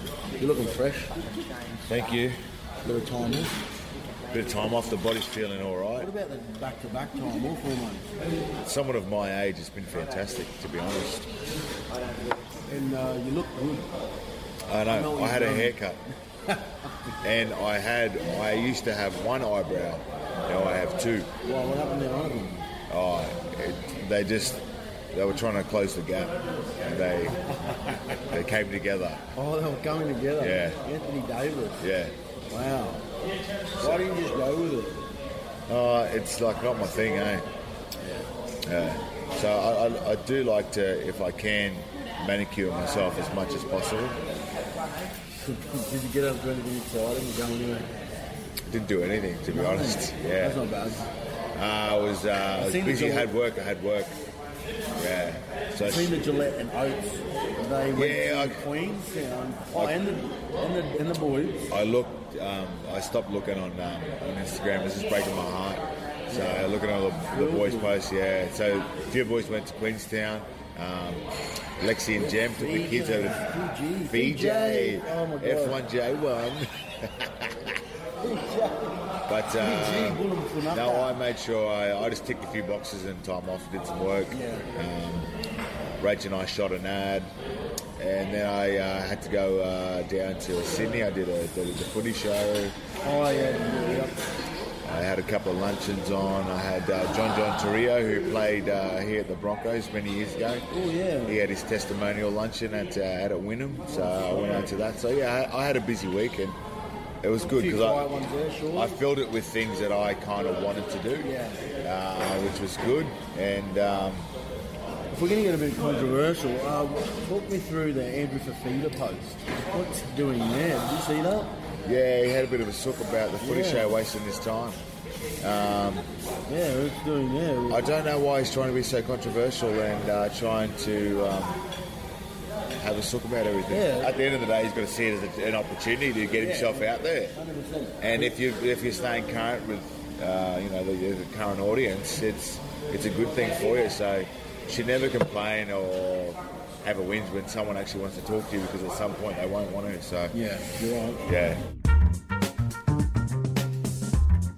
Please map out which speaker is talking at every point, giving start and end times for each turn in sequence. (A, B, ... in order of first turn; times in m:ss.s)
0:00.4-0:01.2 A
0:01.9-0:02.4 B
0:02.8-0:03.6 A
0:04.3-0:06.1 B
0:06.0-0:08.1 A
0:08.6-0:11.3 B
0:12.7-0:13.9 A
0:14.7-0:16.0 B
0:14.9-0:15.8 A
0:17.2-0:21.3 B
0:21.4-0:22.6 A
0:22.9-0:27.8 B
0:28.3-0:29.2 B
0:29.3-0:31.8 A
0:30.4-0:30.8 B
0:31.8-0:32.2 B
0:32.5-0:33.0 A
0:33.8-0:34.1 B
0:33.8-0:35.1 A
0:35.7-0:37.5 B
0:38.0-0:38.3 A
0:38.6-0:44.2 B
0:45.3-0:47.9 A
0:48.7-0:50.6 B
0:49.5-0:51.1 A
0:51.5-0:54.2 B
0:52.6-0:53.3 A
0:55.0-0:56.2 B
0:55.8-1:01.6 A
0:58.0-0:58.7 B
0:59.7-1:00.0 B
1:01.7-1:13.4 B
1:06.3-1:06.7 A
1:07.3-1:07.9 A
1:12.2-1:15.8 A
1:14.1-1:17.7 B
1:18.2-1:21.2 A
1:19.3-1:25.3 B
1:24.3-1:24.7 A
1:26.0-1:27.3 B
1:28.0-1:32.8 B
1:33.0-1:34.3 A
1:34.8-1:40.6 B
1:40.7-1:41.4 A
1:41.3-1:46.6 B
1:44.3-1:44.7 A
1:47.2-1:48.1 B
1:47.5-1:49.0 A
1:48.7-1:54.3 B
1:51.2-1:51.6 A
1:55.1-2:01.6 A
2:01.8-2:04.8 B
2:03.4-2:03.9 A
2:05.4-2:06.1 B
2:06.5-2:07.9 A
2:07.7-2:11.6 B
2:12.8-2:17.4 B
2:13.7-2:14.2 A
2:16.4-2:18.3 A
2:18.0-2:30.4 B
2:30.3-2:31.2 A
2:31.2-2:31.6 B